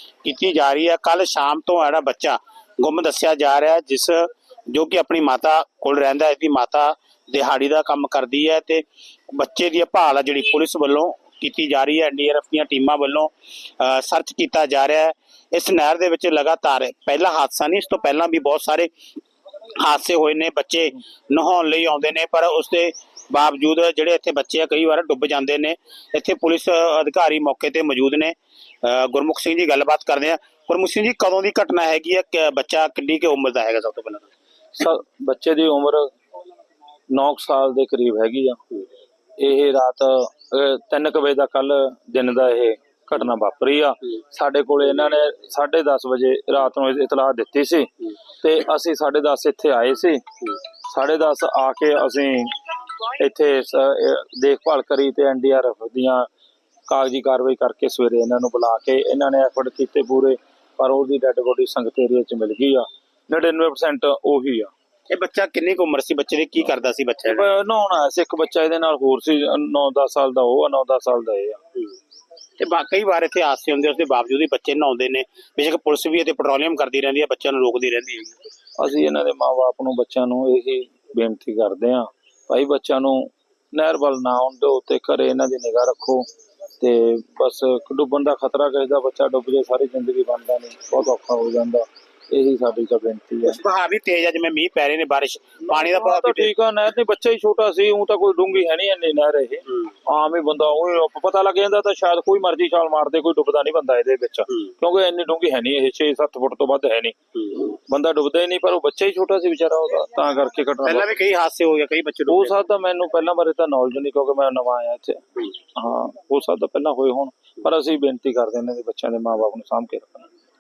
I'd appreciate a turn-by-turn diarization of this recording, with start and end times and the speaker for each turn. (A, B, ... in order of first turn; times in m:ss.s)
0:00.2-0:18.9 A
0:19.8-0:34.3 A
0:34.8-0:36.1 B
0:37.1-0:38.6 B
0:39.4-0:50.2 B
0:50.9-0:52.6 B
0:53.1-0:56.3 B
0:56.9-1:04.7 B
1:05.1-1:07.5 A
1:07.3-1:11.6 B
1:12.6-1:18.4 A
1:18.8-1:26.3 B
1:26.8-1:33.6 B
1:33.5-1:36.5 A
1:35.7-1:51.1 B
1:50.8-1:52.6 A
1:52.3-2:00.3 B